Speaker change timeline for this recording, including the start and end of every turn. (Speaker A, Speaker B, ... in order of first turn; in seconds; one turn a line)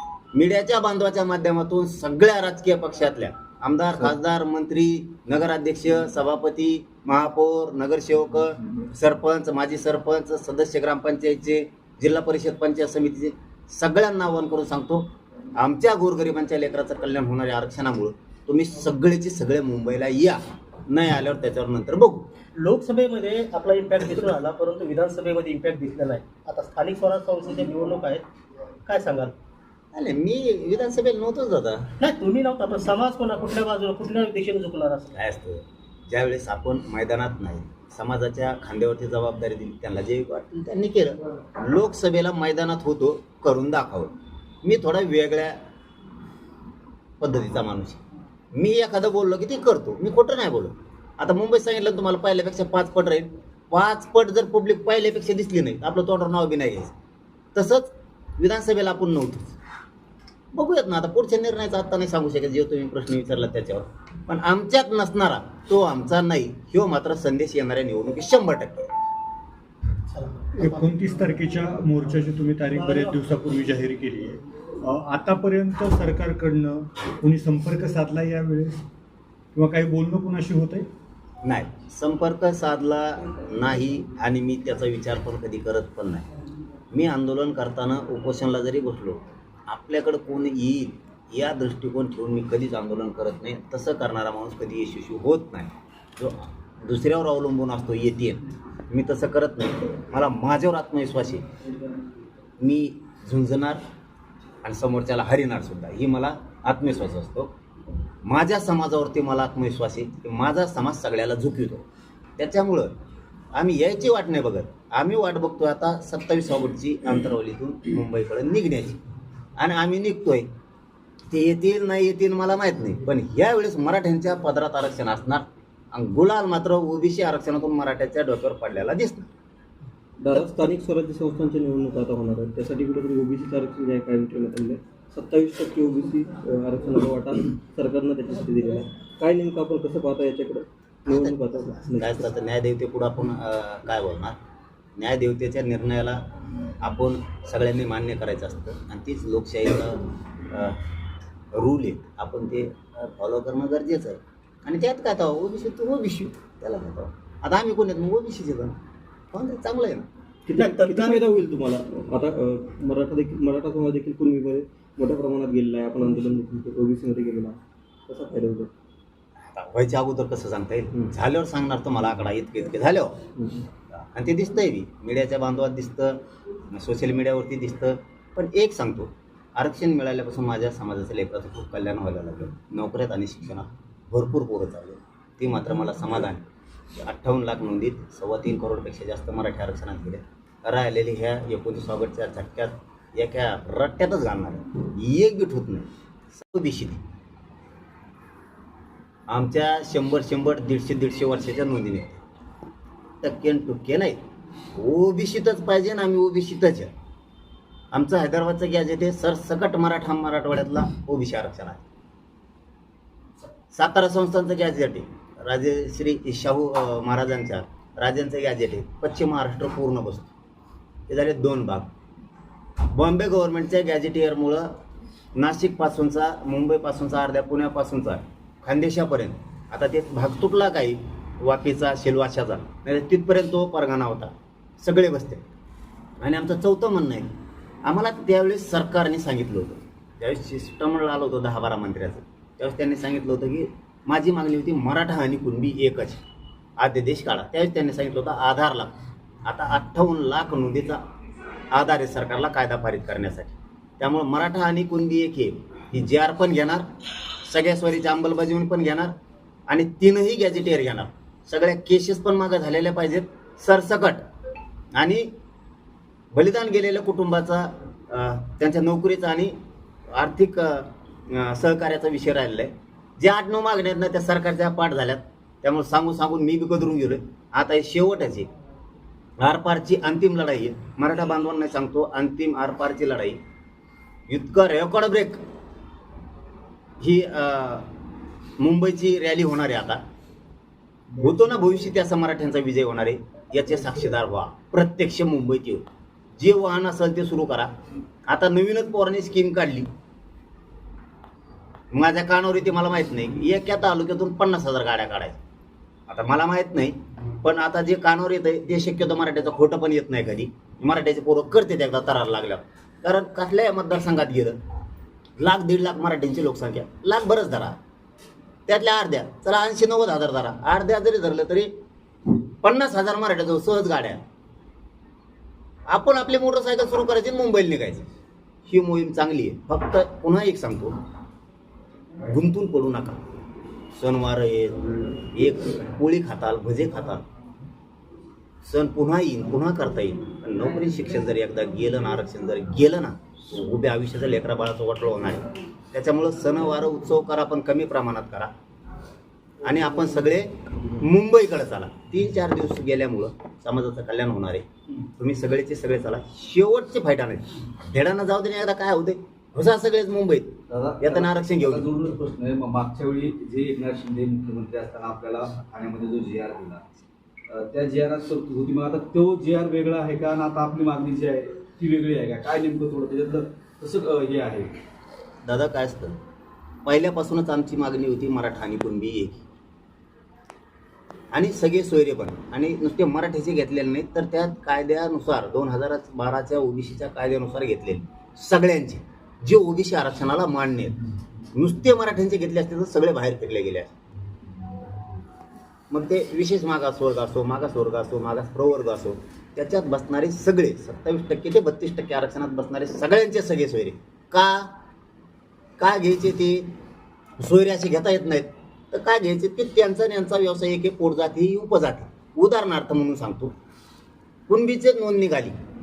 Speaker A: 0.3-22.3
Speaker B: 22.6-28.2
Speaker B: 28.9-29.3
Speaker A: 29.9-31.9
Speaker B: 32.0-35.1
Speaker A: 35.1-45.5
Speaker A: 47.2-48.0
Speaker A: 48.5-56.9
Speaker A: 57.5-59.5
Speaker A: 60.5-68.9
Speaker B: 70.1-71.0
Speaker C: 70.5-78.7
Speaker B: 72.8-73.1
Speaker C: 79.5-80.9
Speaker A: 81.4-86.3
Speaker A: 86.9-101.5
Speaker A: 102.6-103.8
Speaker A: 104.6-107.5
Speaker A: 108.2-111.8
Speaker A: 112.4-112.9
Speaker A: 113.5-119.0
Speaker A: 119.6-120.5
Speaker A: 121.3-129.3
Speaker D: 130.2-142.2
Speaker A: 141.1-141.3
Speaker A: 141.9-144.3
Speaker A: 145.0-146.2
Speaker A: 146.8-150.8
Speaker A: 151.5-158.8
Speaker A: 159.3-160.1
Speaker D: 160.4-168.7
Speaker B: 160.5-161.2
Speaker A: 169.5-173.1
Speaker A: 173.9-186.4
Speaker A: 187.0-197.0
Speaker A: 199.3-202.2
Speaker A: 203.2-204.2
Speaker A: 204.7-206.9
Speaker A: 207.9-211.8
Speaker A: 213.7-220.3
Speaker A: 221.1-221.9
Speaker A: 222.8-224.7
Speaker A: 225.3-235.4
Speaker A: 236.2-237.3
Speaker A: 237.8-246.2
Speaker A: 246.8-248.9
Speaker A: 249.4-251.0
Speaker A: 251.7-256.9
Speaker A: 257.4-259.1
Speaker A: 259.7-264.2
Speaker A: 264.9-265.2
Speaker A: 266.3-269.5
Speaker A: 270.1-278.5
Speaker A: 279.4-283.4
Speaker A: 284.3-285.4
Speaker A: 287.0-287.9
Speaker A: 288.6-290.0
Speaker A: 291.2-295.8
Speaker A: 296.4-297.7
Speaker A: 298.3-299.9
Speaker A: 301.9-305.4
Speaker A: 306.1-314.6
Speaker A: 315.4-317.8
Speaker A: 318.7-321.7
Speaker A: 322.6-324.2
Speaker A: 325.9-328.1
Speaker A: 328.6-330.9
Speaker A: 332.2-333.2
Speaker A: 333.9-337.2
Speaker A: 338.6-348.5
Speaker A: 349.6-354.6
Speaker A: 355.2-361.9
Speaker E: 360.7-366.8
Speaker E: 367.5-374.7
Speaker A: 375.4-376.1
Speaker A: 376.8-379.4
Speaker A: 381.3-391.0
Speaker A: 391.5-393.9
Speaker A: 395.9-404.7
Speaker A: 405.8-406.7
Speaker A: 407.4-413.5
Speaker A: 414.5-415.5